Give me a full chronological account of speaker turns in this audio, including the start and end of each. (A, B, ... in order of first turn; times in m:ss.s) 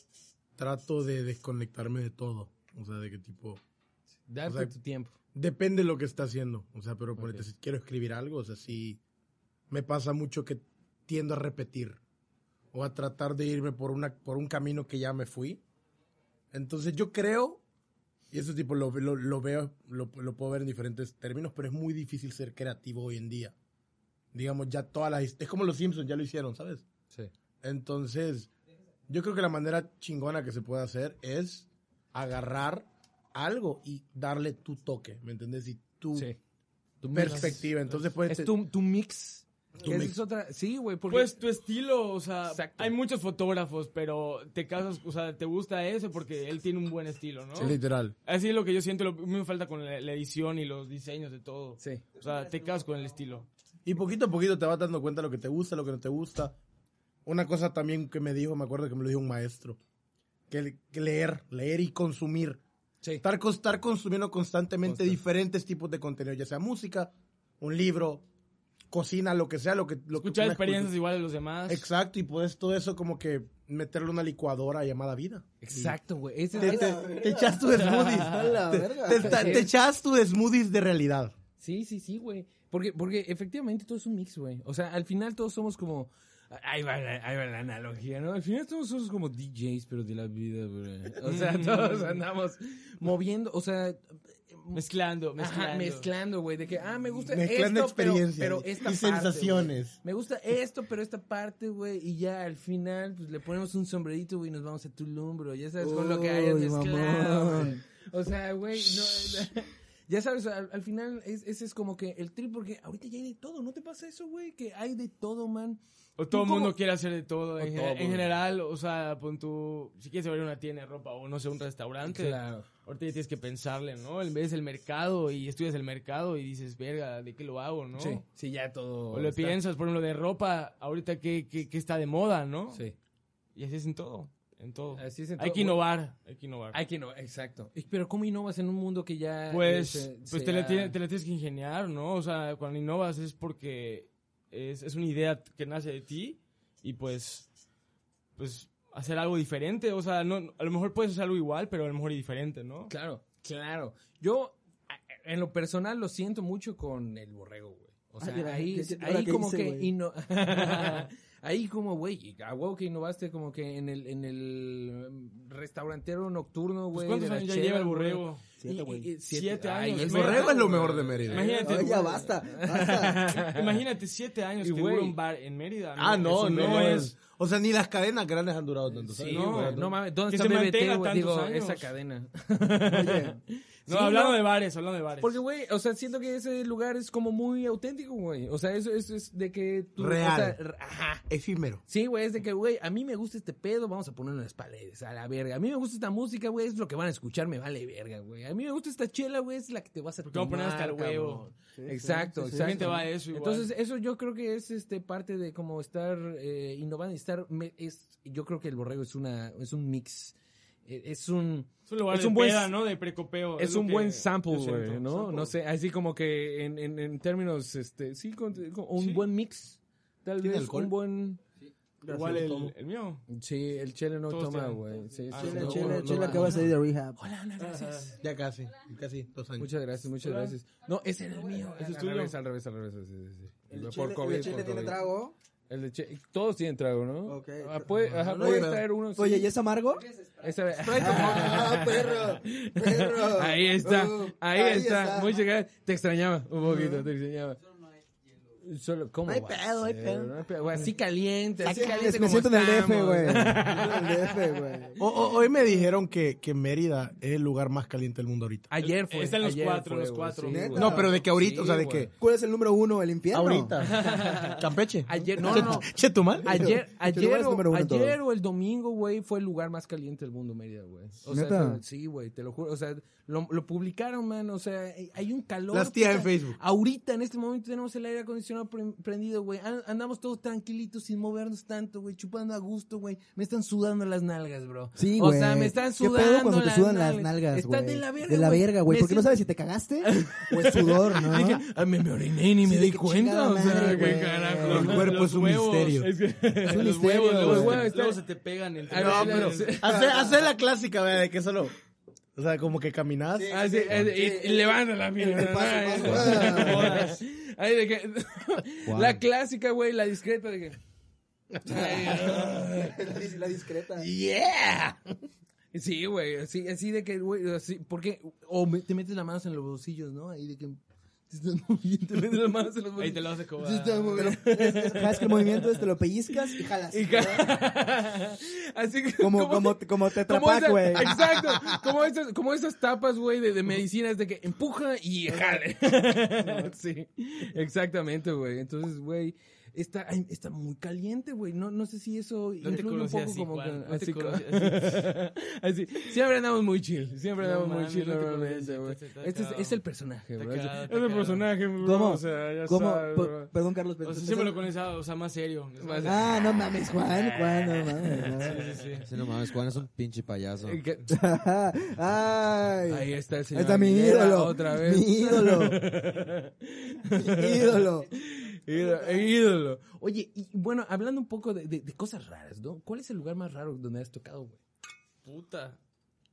0:00.6-0:03.6 A
0:04.3-0:05.1 B
0:04.4-0:04.7 A
0:05.3-0:09.0 A
0:07.2-0:07.4 B
0:09.7-0:12.0 A
0:12.7-0:15.6 A
0:16.5-0:17.6 A
0:18.3-0:23.5 A
0:24.3-0:26.8 A
0:27.6-0:28.5 A
0:29.1-0:36.3 A
0:37.0-0:41.4 B
0:37.1-0:38.5 A
0:39.8-0:40.2 A
0:41.1-0:47.7 C
0:42.5-0:42.9 B
0:47.6-0:48.1 A
0:48.2-0:53.5 C
0:53.8-0:56.6 A
0:57.2-0:59.8 A
1:00.5-1:02.6 A
1:03.2-1:08.2 A
1:04.8-1:05.2 B
1:08.9-1:10.9 A
1:10.2-1:11.9 C
1:11.7-1:16.0 A
1:15.6-1:17.1 B
1:16.6-1:19.7 D
1:16.6-1:21.3 A
1:17.7-1:18.3 C
1:19.1-1:19.7 B
1:21.6-1:34.8 B
1:31.2-1:32.2 C
1:34.7-1:36.1 C
1:35.4-1:55.8 B
1:37.3-1:40.0 A
1:45.8-1:47.8 D
1:56.2-2:08.2 C
1:56.3-1:56.7 B
1:57.6-1:58.3 B
2:02.0-2:02.6 B
2:08.0-2:09.6 B
2:09.1-2:12.8 C
2:13.6-2:16.8 C
2:15.0-2:15.8 B
2:16.7-2:21.0 B
2:19.5-2:27.4 C
2:28.4-2:32.9 C
2:32.9-2:53.8 B
2:38.2-2:39.9 D
2:40.5-2:41.0 C
2:46.9-2:48.4 C
2:48.6-2:49.1 D
2:49.3-2:50.7 C
2:50.0-2:51.6 A
2:51.3-2:52.2 C
2:51.6-2:53.4 D
2:53.3-2:57.1 C
2:54.6-2:55.2 B
2:56.0-2:59.8 A
2:56.3-2:57.0 B
2:58.9-3:04.4 B
2:59.3-3:01.9 C
3:02.9-3:03.4 D
3:03.9-3:05.4 C
3:05.2-3:11.3 B
3:10.0-3:10.6 A
3:11.3-3:11.8 A
3:11.9-3:30.3 B
3:20.3-3:21.5 C
3:21.8-3:22.9 D
3:22.6-3:23.7 C
3:30.8-3:32.8 B
3:31.9-3:35.5 C
3:33.6-3:41.4 B
3:39.0-3:39.2 C
3:40.4-3:40.9 A
3:42.0-3:42.7 D
3:42.1-3:43.2 C
3:43.3-3:48.2 B
3:44.3-3:45.9 C
3:45.4-3:46.6 A
3:45.4-3:47.2 D
3:48.2-3:49.7 A
3:49.6-3:55.0 B
3:51.8-3:52.3 C
3:53.7-3:55.3 D
3:55.7-3:59.5 B
3:57.2-4:00.1 D
3:58.1-3:58.8 A
4:00.4-4:07.6 B
4:00.8-4:05.3 D
4:06.6-4:07.1 D
4:08.6-4:14.4 B
4:09.3-4:10.3 A
4:11.6-4:15.0 D
4:15.0-4:18.7 A
4:18.7-4:22.1 B
4:18.8-4:20.7 C
4:20.5-4:21.2 D
4:20.8-4:22.1 A
4:22.2-4:23.8 D
4:23.3-4:26.7 A
4:24.0-4:49.4 B
4:24.0-4:24.6 C
4:25.4-4:25.8 D
4:26.4-4:28.2 D
4:31.3-4:31.8 D
4:35.7-4:36.6 A
4:45.0-4:51.6 D
4:50.0-4:55.1 B
4:52.6-4:55.0 D
4:53.9-4:56.1 A
4:54.7-4:59.8 C
4:56.0-4:58.2 B
4:56.6-4:57.9 D
4:58.9-5:00.0 B
4:58.9-5:01.7 A
4:59.8-5:00.5 D
5:02.4-5:04.0 A
5:03.3-5:07.0 D
5:03.5-5:10.8 B
5:06.2-5:07.2 C
5:08.9-5:09.2 E
5:11.6-5:13.0 B
5:11.6-5:14.1 D
5:14.0-5:15.0 B
5:15.7-5:20.8 B
5:21.3-5:53.5 B
5:23.0-5:24.3 C
5:23.7-5:27.6 D
5:29.2-5:31.8 D
5:35.3-5:35.6 D
5:36.3-5:36.7 D
5:42.6-5:45.1 C
5:47.4-5:49.8 C
5:50.4-5:51.5 C
5:51.8-5:54.6 D
5:54.0-5:56.2 C
5:55.8-5:59.0 B
5:56.0-5:58.6 D
5:58.4-5:59.0 C
5:59.0-6:00.8 E
6:00.6-6:01.1 B
6:01.1-6:05.8 D
6:02.9-6:14.6 B
6:07.1-6:08.1 D
6:15.2-6:15.8 C